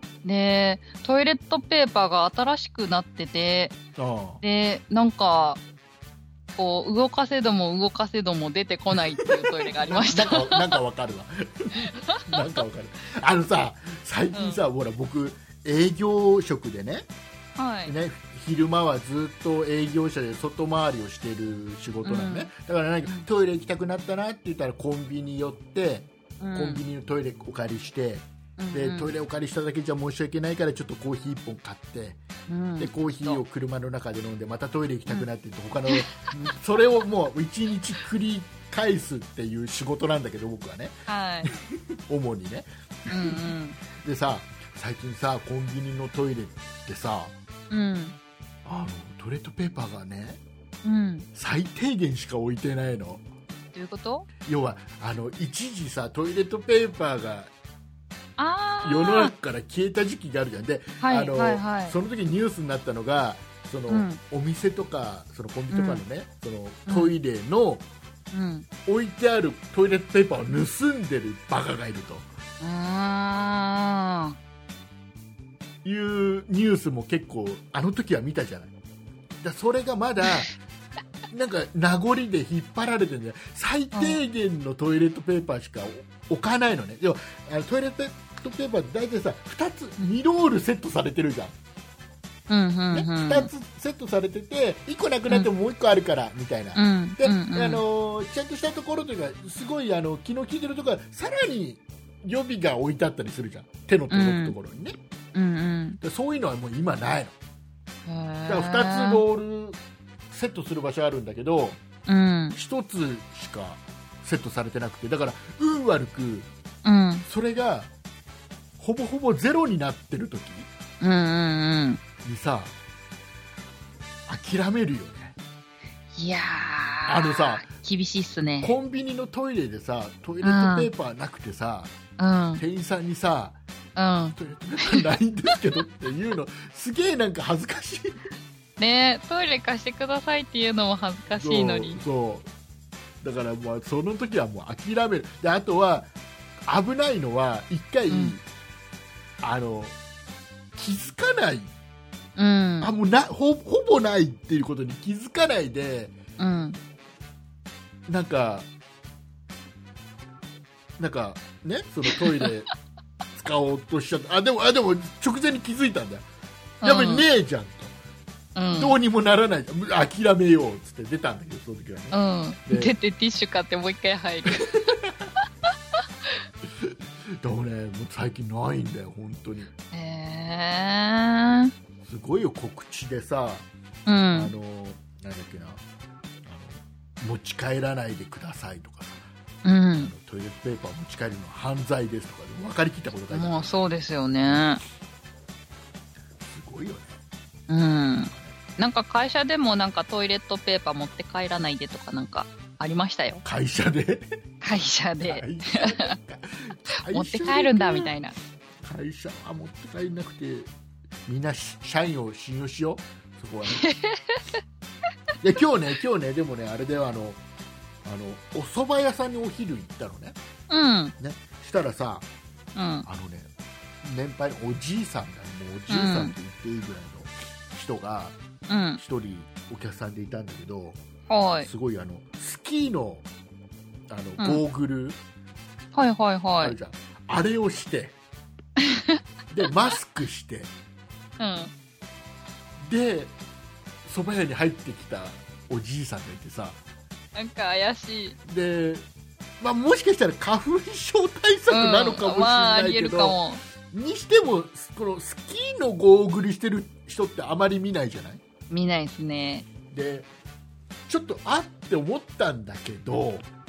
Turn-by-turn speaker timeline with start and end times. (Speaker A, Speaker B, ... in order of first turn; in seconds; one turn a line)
Speaker A: 0.2-3.8
Speaker B: 4.0-4.4
Speaker A: 4.4-5.6
Speaker A: 6.5-10.8
Speaker B: 8.9-17.1
Speaker A: 11.9-12.4
Speaker A: 14.3-14.6
Speaker A: 17.6-17.9
Speaker B: 17.9-32.2
Speaker A: 22.0-22.5
Speaker A: 26.4-26.8
Speaker A: 28.6-29.1
Speaker A: 32.5-33.4
Speaker B: 32.8-43.4
Speaker A: 35.9-36.1
Speaker A: 41.1-41.5
Speaker A: 43.1-43.8
Speaker B: 43.9-47.3
Speaker A: 47.7-48.1
Speaker B: 48.6-50.4
Speaker A: 50.8-51.3
Speaker B: 51.3-53.2
Speaker A: 53.7-54.3
Speaker B: 54.4-57.5
Speaker A: 58.4-59.3
Speaker B: 58.8-67.9
Speaker A: 61.0-61.9
Speaker A: 63.9-64.2
Speaker A: 65.7-66.0
Speaker A: 66.9-67.1
Speaker A: 68.3-68.7
Speaker B: 68.8-72.3
Speaker A: 72.6-74.4
Speaker B: 75.8-78.7
Speaker B: 79.4-80.5
Speaker A: 80.2-80.5
Speaker B: 81.3-91.5
Speaker A: 83.9-84.2
Speaker A: 92.5-93.5
Speaker B: 92.9-105.0
Speaker A: 96.7-97.8
Speaker A: 104.1-104.5
Speaker A: 105.3-106.0
Speaker B: 106.0-107.3
Speaker A: 108.0-109.2
Speaker B: 108.5-109.8
Speaker B: 110.3-111.8
Speaker A: 112.1-112.6
Speaker B: 112.5-116.5
Speaker A: 116.8-117.2
Speaker B: 117.2-117.9
Speaker B: 118.8-120.7
Speaker A: 121.0-122.0
Speaker B: 122.2-122.8
Speaker B: 124.3-125.3
Speaker A: 126.1-128.7
Speaker B: 127.1-127.7
Speaker B: 128.6-131.9
Speaker A: 130.4-130.9
Speaker A: 132.2-132.6
Speaker B: 132.6-133.6
Speaker A: 133.9-135.0
Speaker B: 134.4-138.3
Speaker A: 138.8-142.0
Speaker B: 141.4-142.5
Speaker B: 143.2-146.1
Speaker B: 146.7-148.4
Speaker A: 148.1-148.3
Speaker B: 149.4-149.9
Speaker B: 150.7-151.7
Speaker A: 152.3-152.9
Speaker B: 152.8-156.2
Speaker A: 156.4-156.8
Speaker B: 158.1-158.7
Speaker B: 161.0-162.7
Speaker B: 163.3-166.2
Speaker A: 166.8-167.2
Speaker B: 166.8-167.9
Speaker A: 168.5-169.0
Speaker B: 168.8-172.9
Speaker A: 172.1-174.9
Speaker B: 174.6-175.3
Speaker B: 176.7-179.7
Speaker A: 179.9-181.7
Speaker B: 182.0-183.7
Speaker A: 184.1-184.5
Speaker B: 184.3-185.8
Speaker B: 186.4-189.3
Speaker A: 189.6-190.1
Speaker B: 189.9-193.7
Speaker A: 193.3-194.8
Speaker B: 194.4-194.7
Speaker B: 196.4-197.2
Speaker A: 197.7-203.4
Speaker B: 198.3-198.6
Speaker B: 203.4-204.3
Speaker A: 204.6-206.2
Speaker B: 205.2-208.1
Speaker A: 207.1-208.3
Speaker B: 208.8-210.7
Speaker B: 211.3-213.9
Speaker A: 213.7-214.4
Speaker B: 215.4-217.4
Speaker B: 218.0-220.4
Speaker A: 220.7-221.1
Speaker B: 221.2-222.3
Speaker A: 222.7-223.1
Speaker B: 223.0-223.5
Speaker B: 224.0-228.4
Speaker A: 225.9-226.3
Speaker A: 228.7-229.0
Speaker B: 228.9-231.0
Speaker A: 231.3-231.7
Speaker B: 231.6-233.3
Speaker B: 234.1-235.2
Speaker A: 235.9-236.7
Speaker B: 236.6-238.2
Speaker A: 238.8-239.2
Speaker B: 239.5-240.7
Speaker A: 241.4-241.7
Speaker B: 242.8-243.3
Speaker B: 244.0-246.8
Speaker A: 247.3-248.4
Speaker B: 248.4-249.0
Speaker B: 249.6-253.4
Speaker A: 251.7-253.6
Speaker B: 253.9-258.4
Speaker A: 258.7-259.7
Speaker B: 259.9-260.3
Speaker B: 261.1-263.5